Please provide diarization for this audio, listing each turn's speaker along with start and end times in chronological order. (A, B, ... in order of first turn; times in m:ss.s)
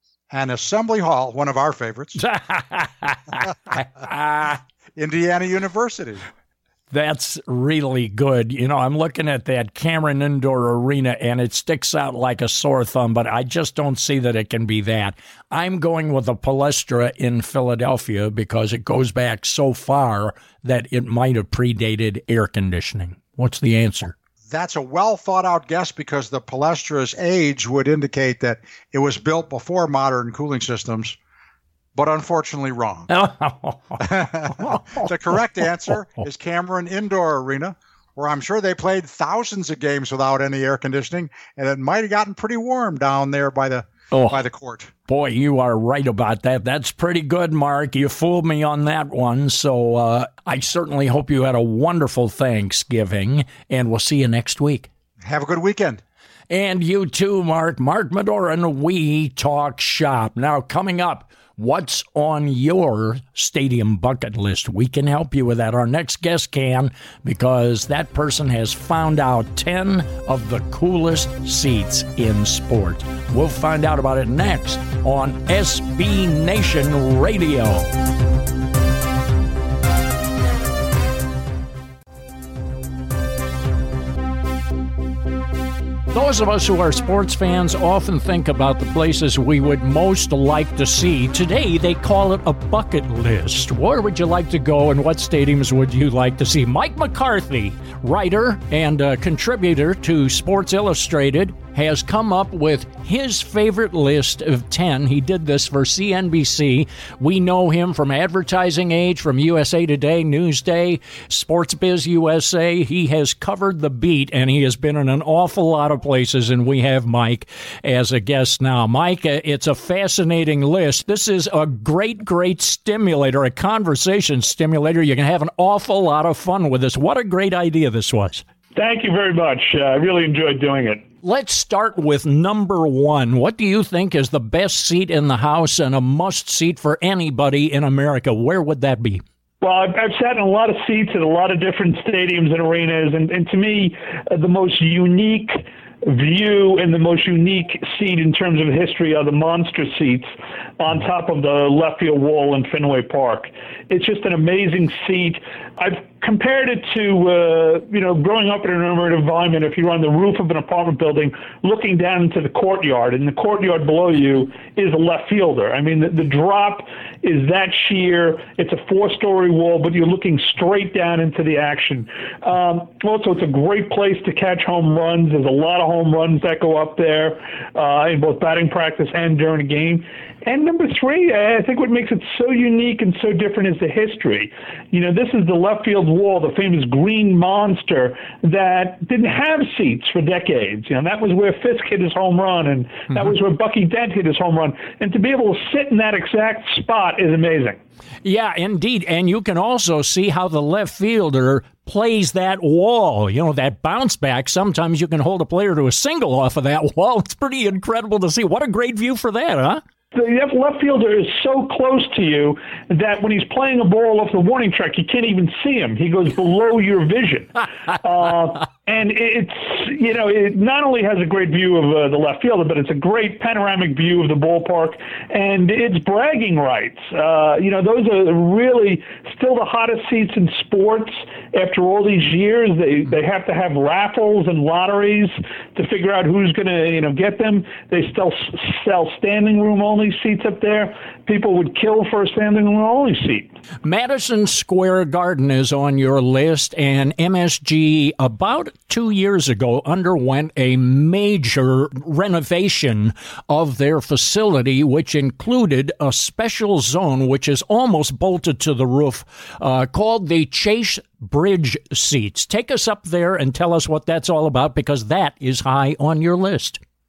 0:00.3-0:02.2 A
0:02.2-0:04.6 B
0:05.0-0:06.3 A
0:06.9-0:24.1 B
0:24.5-0:31.2 A
0:32.0-0:33.1 A
0:33.1-0:34.0 B
0:34.0-0:44.9 A
0:44.1-0:44.4 B
0:45.1-0:54.9 B
0:55.2-0:56.0 A
0:56.5-1:17.9 B
1:26.1-2:08.4 B
2:08.7-2:11.0 C
2:11.2-2:19.2 B
2:19.6-3:17.8 C
3:18.2-3:29.8 B
3:30.1-4:03.5 C
4:03.8-4:26.8 B